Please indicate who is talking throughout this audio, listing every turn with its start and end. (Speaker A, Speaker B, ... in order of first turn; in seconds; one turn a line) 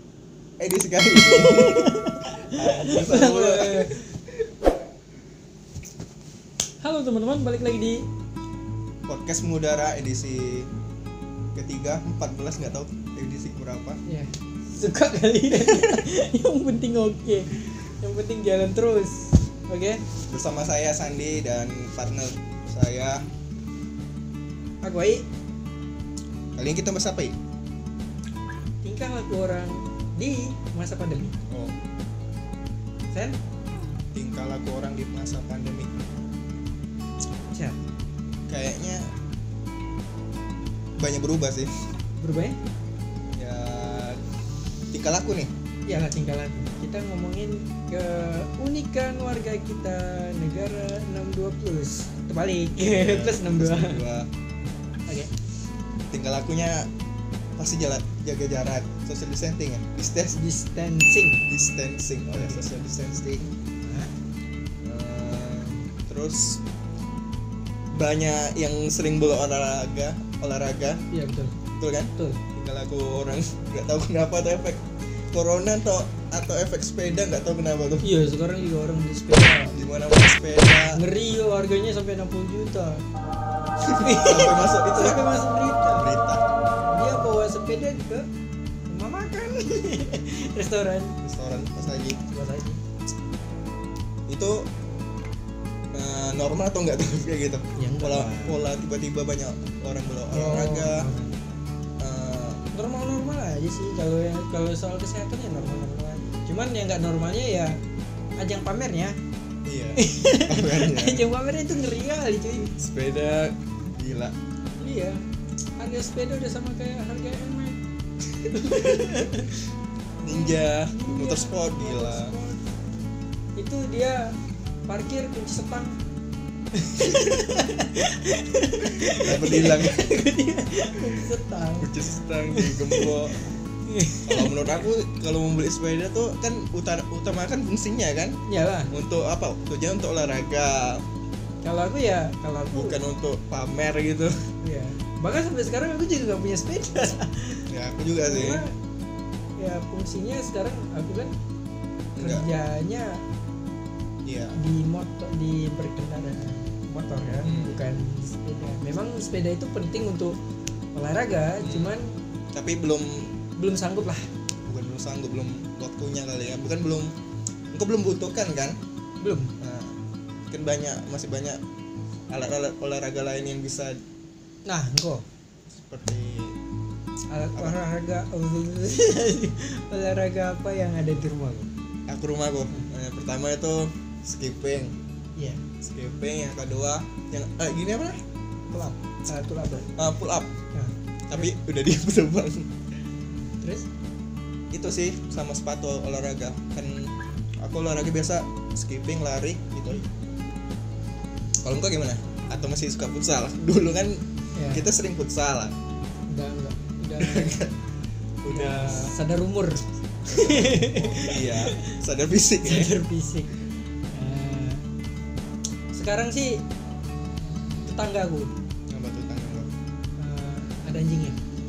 Speaker A: 0.6-3.9
Speaker B: 1.1-4.1
Speaker B: 6.8-8.1
Speaker A: 9.1-10.7
Speaker A: 11.5-14.0
Speaker B: 14.0-20.0
Speaker A: 20.3-23.2
Speaker B: 24.8-25.2
Speaker A: 26.6-27.3
Speaker B: 28.8-31.4
Speaker B: 33.1-33.4
Speaker A: 34.1-35.9
Speaker B: 37.5-37.8
Speaker A: 38.5-39.1
Speaker A: 41.0-41.7
Speaker B: 42.2-42.6
Speaker A: 43.3-44.2
Speaker A: 44.9-45.5
Speaker B: 45.9-54.0
Speaker A: 52.8-54.3
Speaker A: 56.1-56.9
Speaker A: 57.6-60.4
Speaker B: 60.3-61.4
Speaker A: 61.5-63.5
Speaker B: 62.3-62.6
Speaker B: 63.8-64.1
Speaker A: 64.8-66.6
Speaker A: 67.9-71.0
Speaker B: 71.1-71.5
Speaker A: 71.8-78.1
Speaker B: 72.1-72.4
Speaker B: 78.0-79.7
Speaker A: 79.7-81.0
Speaker B: 80.9-83.0
Speaker A: 83.8-85.2
Speaker B: 83.9-86.1
Speaker A: 85.9-86.5
Speaker B: 86.9-88.3
Speaker B: 88.9-91.1
Speaker A: 91.2-92.2
Speaker B: 92.1-92.8
Speaker A: 94.3-94.7
Speaker A: 95.9-101.1
Speaker B: 97.8-98.6
Speaker B: 100.3-101.4
Speaker A: 102.0-102.6
Speaker B: 102.7-107.8
Speaker B: 108.4-109.2
Speaker A: 109.6-111.2
Speaker B: 110.0-112.7
Speaker A: 112.8-114.3
Speaker B: 114.8-115.2
Speaker B: 115.8-117.8
Speaker B: 118.4-119.5
Speaker A: 120.2-122.3
Speaker B: 120.3-122.6
Speaker B: 123.5-124.3
Speaker B: 124.9-125.9
Speaker B: 126.7-131.9
Speaker A: 129.0-130.1
Speaker A: 131.8-133.5
Speaker B: 132.5-133.2
Speaker B: 133.8-134.8
Speaker A: 134.2-138.4
Speaker B: 138.4-138.9
Speaker A: 138.9-141.0
Speaker B: 141.6-143.0
Speaker A: 142.7-144.4
Speaker B: 144.6-147.7
Speaker A: 147.7-148.6
Speaker B: 148.2-148.7
Speaker B: 149.6-151.3
Speaker A: 152.2-152.5
Speaker B: 152.2-153.2
Speaker A: 154.2-154.6
Speaker B: 154.6-160.3
Speaker A: 157.4-157.8
Speaker B: 160.9-162.1
Speaker A: 161.6-161.9
Speaker A: 162.5-163.3
Speaker B: 163.6-164.3
Speaker A: 164.6-167.1
Speaker A: 167.7-168.8
Speaker B: 169.2-169.5
Speaker A: 169.6-169.9
Speaker A: 170.5-171.6
Speaker A: 172.3-174.0
Speaker B: 174.6-175.2
Speaker A: 175.8-176.6
Speaker B: 177.3-181.7
Speaker A: 182.1-184.9
Speaker B: 185.3-185.6
Speaker A: 185.8-188.2
Speaker B: 188.7-189.9
Speaker A: 189.9-190.5
Speaker B: 190.7-191.5
Speaker A: 191.3-192.7
Speaker B: 193.6-193.9
Speaker A: 194.7-200.1
Speaker A: 201.6-205.8
Speaker B: 204.5-204.8
Speaker B: 206.3-207.6
Speaker A: 207.2-207.7
Speaker A: 208.4-209.1
Speaker B: 208.5-211.9
Speaker A: 210.2-212.9
Speaker B: 212.6-213.5
Speaker B: 214.1-214.8
Speaker B: 215.9-216.6
Speaker B: 217.8-218.5
Speaker A: 218.9-219.7
Speaker B: 220.2-221.4